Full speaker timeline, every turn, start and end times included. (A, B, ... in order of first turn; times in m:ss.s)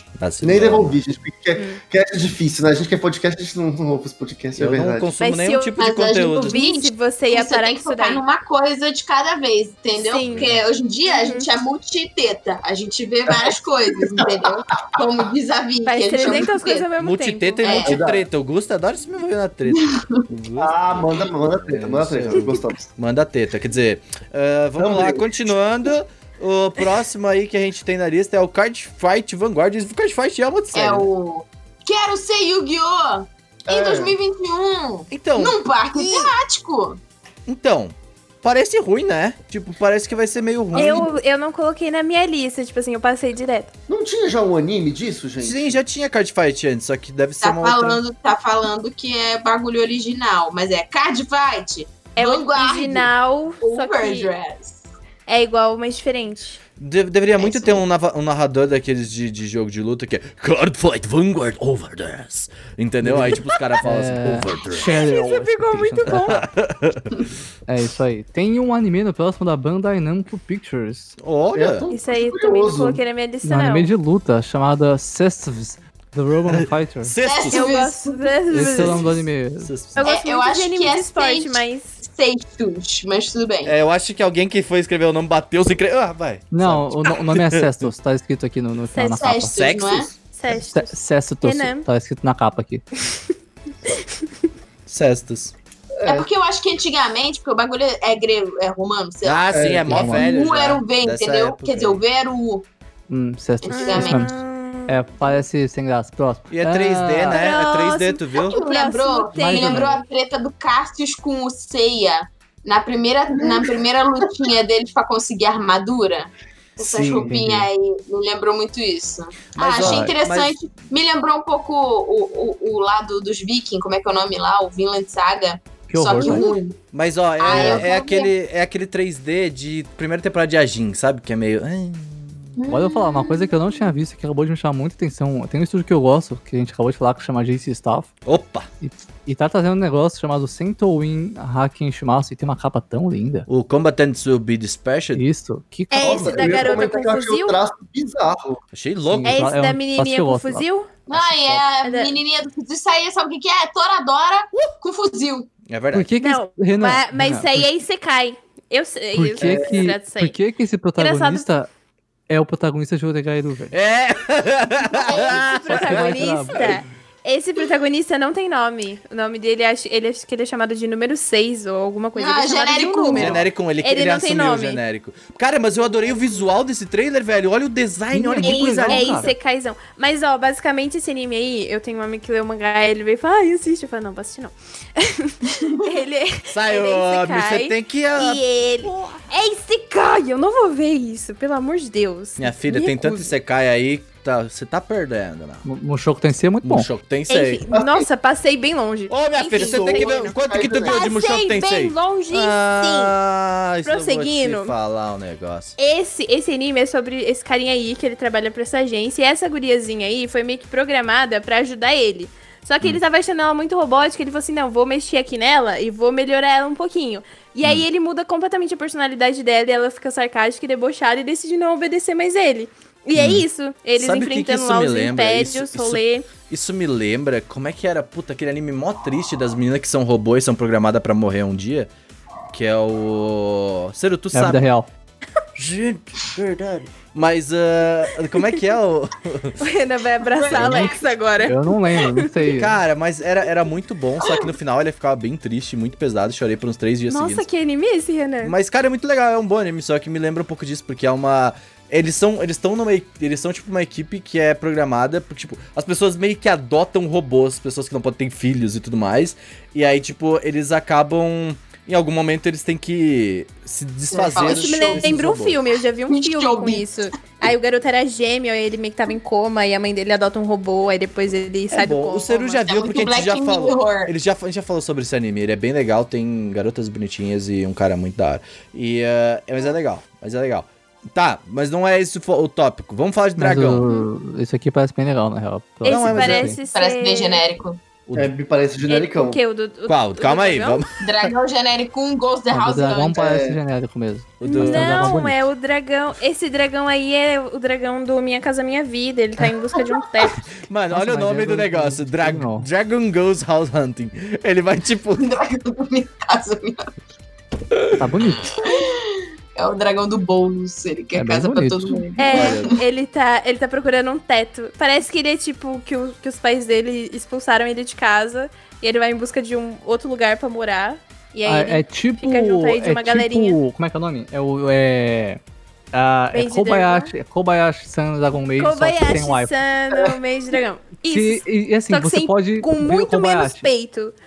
0:00.2-0:01.0 A
0:00.4-0:05.1 B
0:04.6-0:06.6 A
0:05.2-0:05.8 C
0:05.8-0:16.9 D
0:06.4-0:08.2 C
0:09.9-0:10.5 C
0:10.2-0:10.6 A
0:11.1-0:11.5 C
0:15.9-0:17.9 C
0:17.0-0:31.1 A
0:17.6-0:18.0 D
0:17.8-0:18.2 B
0:19.7-0:20.3 D
0:20.6-0:22.9 B
0:24.8-0:25.5 B
0:30.7-0:37.0 D
0:33.7-0:34.2 B
0:35.1-0:35.6 A
0:36.0-0:36.3 C
0:37.5-0:41.1 A
0:40.7-0:43.7 C
0:40.8-0:41.1 D
0:43.9-0:45.8 B
0:45.4-0:48.0 A
0:47.4-0:53.1 D
0:52.2-0:54.3 C
0:53.6-0:54.8 D
0:55.3-0:56.6 C
0:56.8-1:05.0 A
0:57.4-0:57.8 D
1:03.0-1:06.4 E
1:04.9-1:06.4 C
1:06.1-1:07.1 A
1:07.7-1:11.2 E
1:11.2-1:11.8 A
1:11.5-1:13.0 B
1:11.9-1:13.9 C
1:13.4-1:17.1 E
1:16.5-1:17.8 A
1:17.2-1:18.3 D
1:17.5-1:19.0 C
1:18.5-1:19.7 E
1:18.6-1:20.1 A
1:20.0-1:22.0 C
1:20.0-1:23.7 D
1:23.6-1:27.9 A
1:26.5-1:29.6 E
1:28.9-1:29.3 C
1:29.1-1:30.1 D
1:29.5-1:30.1 A
1:30.3-1:31.9 C
1:30.5-1:32.8 E
1:34.9-1:35.5 A
1:36.0-1:36.3 B
1:36.0-1:42.7 D
1:39.2-1:42.0 A
1:39.5-1:40.1 B
1:39.9-1:40.3 E
1:43.1-1:44.3 E
1:43.6-1:44.3 D
1:43.7-1:45.4 C
1:44.9-1:47.4 E
1:46.5-1:48.6 A
1:47.3-1:50.0 C
1:48.4-2:06.8 D
1:49.4-1:50.0 E
1:56.9-1:57.7 E
1:57.1-1:57.3 B
1:59.6-2:00.6 A
2:05.9-2:06.6 E
2:06.9-2:12.5 A
2:07.4-2:08.3 D
2:07.5-2:07.8 E
2:12.6-2:13.5 D
2:12.7-2:18.1 E
2:18.2-2:18.7 A
2:18.8-2:23.5 E
2:23.5-2:25.2 A
2:25.1-2:26.7 E
2:25.9-2:27.6 C
2:26.0-2:28.6 B
2:28.7-2:29.5 A
2:29.1-2:30.6 E
2:29.2-2:30.9 C
2:31.1-2:35.5 D
2:31.1-2:31.7 A
2:31.8-2:32.1 C
2:35.6-2:36.1 A
2:35.9-2:37.7 E
2:36.2-2:40.4 C
2:39.1-2:41.7 E
2:39.4-2:39.8 B
2:41.0-2:41.5 C
2:42.3-2:43.7 E
2:43.7-2:46.8 A
2:44.9-2:54.8 C
2:45.7-2:46.8 E
2:52.1-2:53.4 D
2:53.1-2:59.3 A
2:58.1-2:59.3 E
2:58.4-3:13.3 C
3:05.5-3:05.9 D
3:06.5-3:09.2 A
3:12.4-3:15.6 A
3:15.6-3:16.9 E
3:16.6-3:17.6 A
3:17.3-3:23.2 C
3:17.7-3:18.1 B
3:19.1-3:25.7 A
3:19.6-3:21.0 B
3:23.8-3:24.7 C
3:25.8-3:46.3 C
3:43.1-3:43.4 A
3:44.0-3:51.9 A
3:52.5-3:54.7 A
3:54.3-3:54.9 E
3:55.6-3:59.6 A
3:59.6-4:02.3 C
4:00.3-4:01.0 D
4:00.5-4:00.9 A
4:00.6-4:02.8 E
4:02.5-4:07.4 A
4:07.1-4:08.5 C
4:08.4-4:25.6 A
4:24.1-4:25.2 D
4:24.4-4:32.6 C
4:26.1-4:27.0 D
4:31.7-4:43.8 A
4:32.6-4:34.1 D
4:43.4-4:46.6 E
4:45.8-4:47.4 C
4:45.8-4:46.6 A
4:46.7-4:47.8 D
4:48.1-4:49.4 B
4:48.9-4:50.8 C
4:49.9-4:51.3 A
4:51.0-4:53.2 D
4:52.5-4:55.4 E
4:53.1-4:53.6 B
4:54.4-4:55.2 A
4:54.4-5:00.5 C
5:00.6-5:05.2 A
5:00.9-5:02.7 E
5:05.2-5:06.9 D
5:08.0-5:08.5 E
5:08.3-5:12.8 D
5:11.1-5:12.6 E
5:12.2-5:23.6 C
5:21.4-5:25.4 E
5:25.9-5:29.5 E
5:26.3-5:27.1 C
5:28.6-5:34.1 C
5:31.1-5:33.7 E